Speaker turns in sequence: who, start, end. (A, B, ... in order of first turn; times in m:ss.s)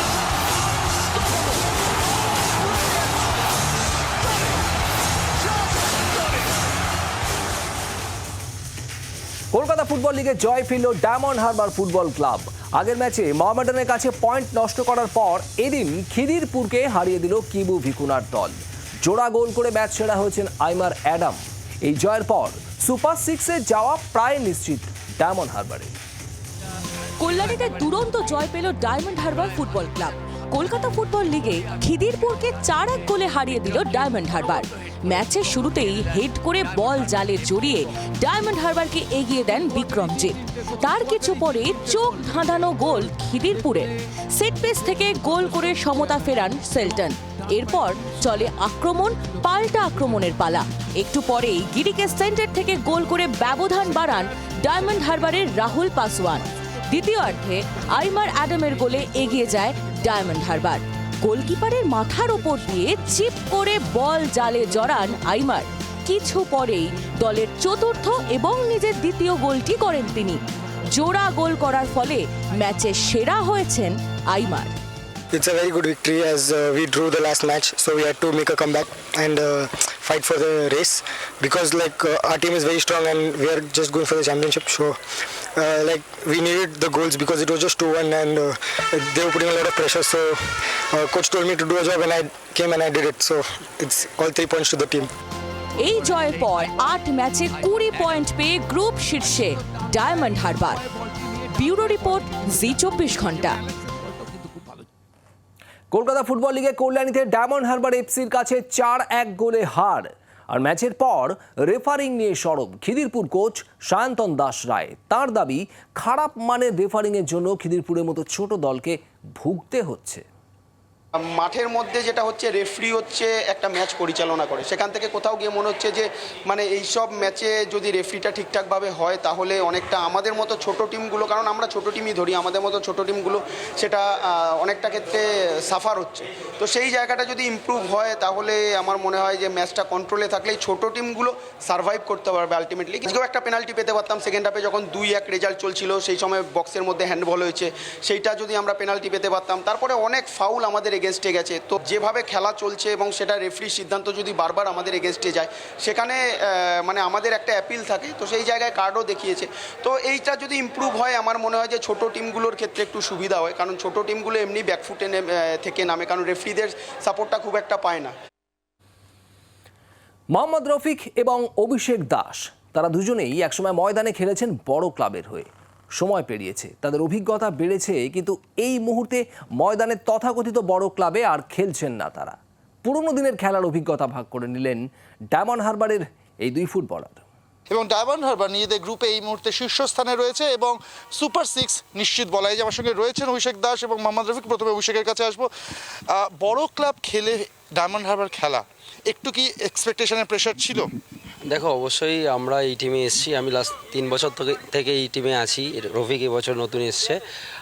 0:09.5-0:25.9 A
0:27.2-1:10.4 B
1:10.9-1:14.7 B
1:15.3-1:35.1 C
1:35.8-1:40.8 B
1:41.5-1:43.6 B
1:45.9-2:00.2 A
2:01.2-2:48.1 D
2:50.3-3:07.2 A
3:07.7-3:15.5 E
3:16.1-3:20.9 E
3:21.4-3:27.2 F